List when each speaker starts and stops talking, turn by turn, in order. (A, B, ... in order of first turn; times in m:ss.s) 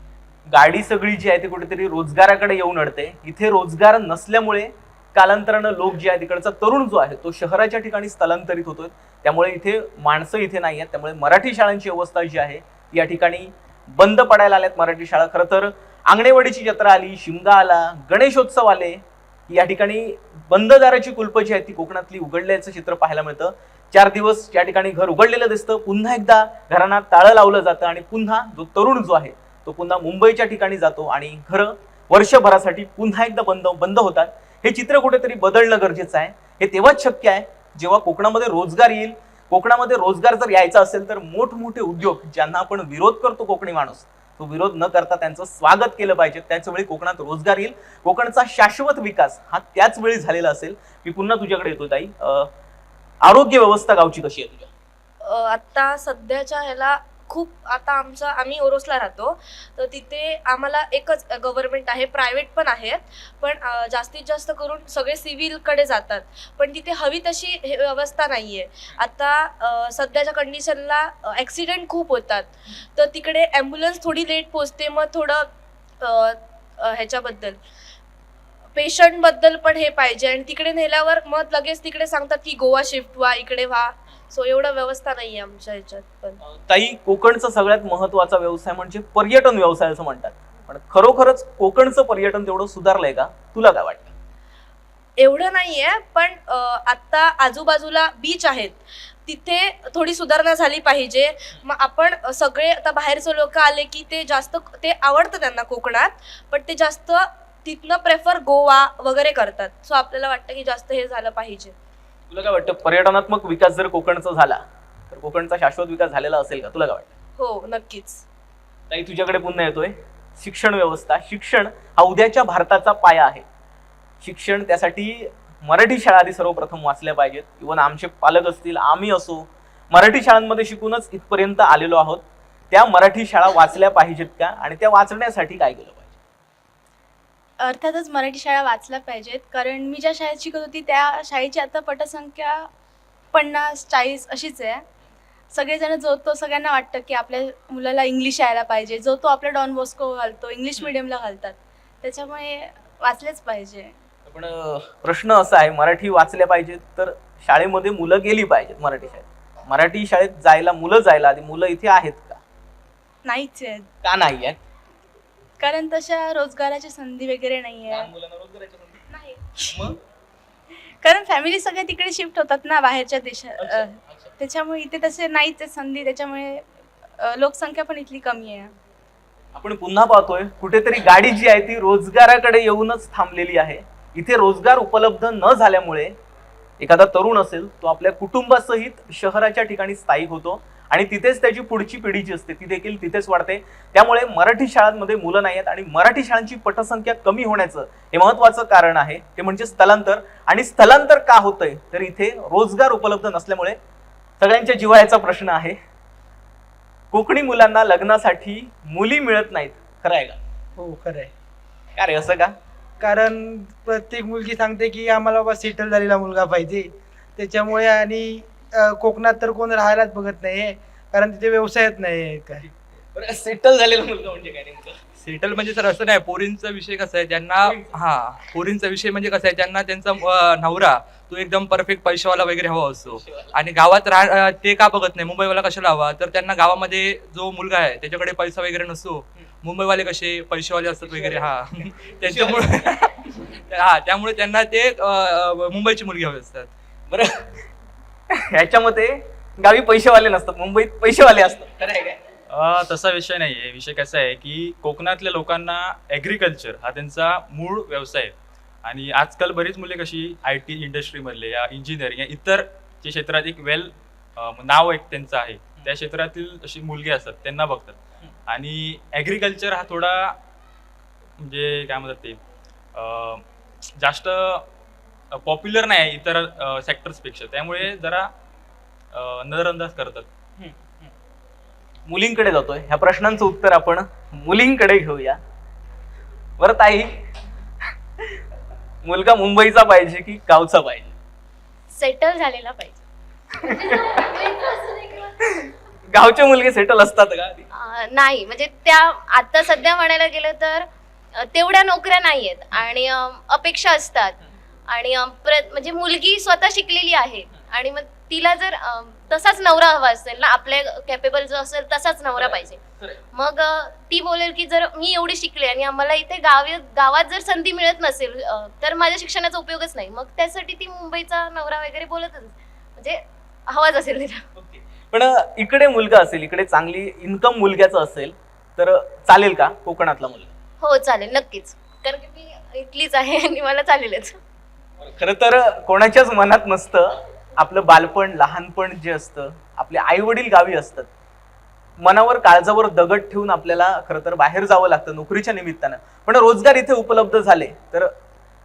0:00.5-0:52.5 A
0:53.2-0:54.7 A
0:55.2-1:15.5 B
1:16.0-1:17.6 B
1:18.8-1:26.4 B
1:26.4-1:34.1 A
1:35.2-1:51.7 B
1:52.3-1:57.1 A
1:57.4-1:58.2 B
1:58.9-2:03.4 A
2:04.2-2:16.1 A
2:17.6-2:22.7 C
2:23.3-2:24.8 C
2:25.5-2:34.0 C
2:34.3-2:42.4 A
2:43.2-2:43.9 C
2:44.0-2:44.6 A
2:45.6-2:48.1 C
2:47.9-2:49.0 A
2:49.1-2:49.8 C
2:49.7-2:50.0 A
2:51.0-2:56.7 C
2:53.6-2:54.3 A
2:57.2-2:58.7 C
2:59.6-3:06.2 A
3:06.8-3:23.8 A
3:24.4-3:25.8 A
3:27.1-3:30.4 A
3:30.8-3:31.3 D
3:32.0-3:32.5 A
3:33.0-3:42.6 D
3:42.6-3:45.0 A
3:45.2-4:06.7 E
3:47.6-3:48.0 A
3:53.0-3:53.6 A
4:01.0-4:01.5 A
4:02.2-4:03.0 A
4:07.1-4:07.5 A
4:08.5-4:12.2 A
4:12.5-4:30.4 F
4:31.4-4:32.4 F
4:33.0-4:33.4 F
4:34.0-4:34.7 F
4:35.3-4:38.3 F
4:39.1-4:40.3 F
4:40.6-4:41.1 A
4:42.1-4:45.4 A
4:46.6-4:47.2 A
4:49.0-4:51.1 A
4:51.9-4:53.0 G
4:53.6-4:55.4 G
4:55.6-4:57.7 A
4:57.7-5:04.4 G
5:04.9-5:12.8 G
5:12.4-5:13.2 A
5:13.3-5:24.4 G
5:24.6-5:30.5 A
5:30.8-5:34.4 G
5:35.0-5:41.1 A
5:42.0-5:48.1 A